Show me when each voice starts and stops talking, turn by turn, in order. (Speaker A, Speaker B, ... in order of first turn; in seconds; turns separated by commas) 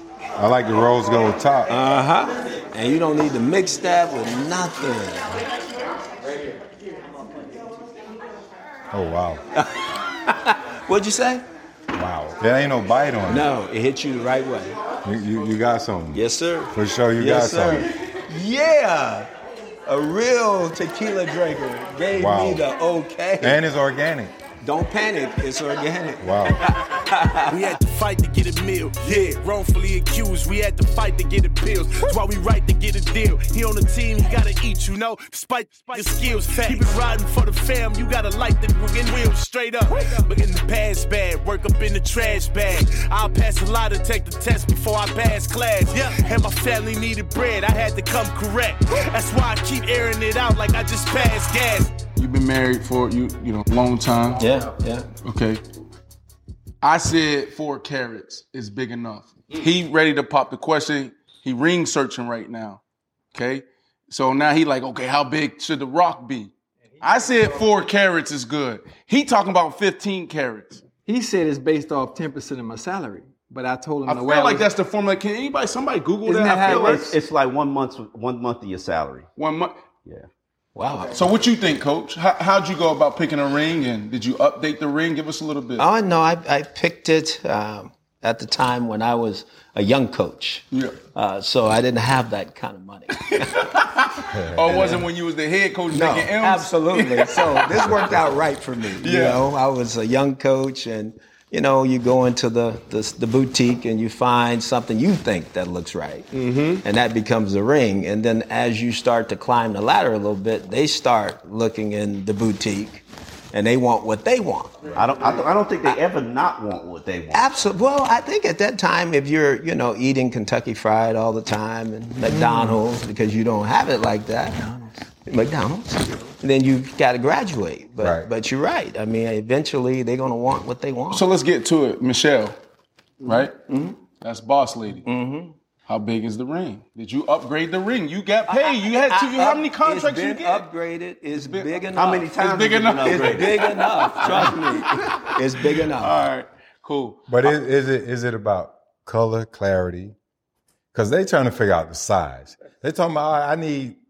Speaker A: 0.4-1.7, Speaker B: 1.7-5.4, Speaker A: 8.9-9.4, Speaker B: 9.6-11.4, Speaker A: 11.9-13.4, Speaker B: 13.3-14.8, Speaker A: 15.0-16.2, Speaker B: 16.1-19.3, Speaker A: 16.7-17.9, Speaker B: 19.9-23.6, Speaker A: 22.1-22.6, Speaker A: 23.4-24.3, Speaker B: 24.6-27.8, Speaker A: 26.2-26.6, Speaker C: 27.5-52.0, Speaker B: 29.0-29.3, Speaker D: 52.1-54.4, Speaker B: 54.4-55.1, Speaker D: 55.2-55.6, Speaker D: 56.8-62.8, Speaker D: 63.3-70.8, Speaker E: 67.1-67.5, Speaker E: 71.0-74.7, Speaker D: 74.1-77.0, Speaker E: 76.2-77.1, Speaker F: 76.6-79.3, Speaker D: 79.4-79.8, Speaker B: 80.8-81.2, Speaker D: 81.1-85.8, Speaker B: 85.8-93.7, Speaker D: 93.2-98.2, Speaker A: 94.3-95.0, Speaker B: 94.7-95.0, Speaker B: 95.9-106.3, Speaker D: 99.0-99.4, Speaker D: 106.3-106.8, Speaker B: 106.8-114.9, Speaker F: 114.9-117.5, Speaker B: 117.3-124.6, Speaker E: 122.3-122.8, Speaker E: 124.5-125.0, Speaker B: 125.3-131.2, Speaker A: 128.0-128.3, Speaker D: 131.1-132.5, Speaker D: 133.2-133.5, Speaker B: 133.6-134.0, Speaker D: 134.2-135.1, Speaker B: 135.1-135.5, Speaker D: 135.9-140.7, Speaker B: 138.5-146.1, Speaker D: 141.3-147.5, Speaker F: 141.9-145.3, Speaker A: 147.3-150.1, Speaker A: 150.9-154.0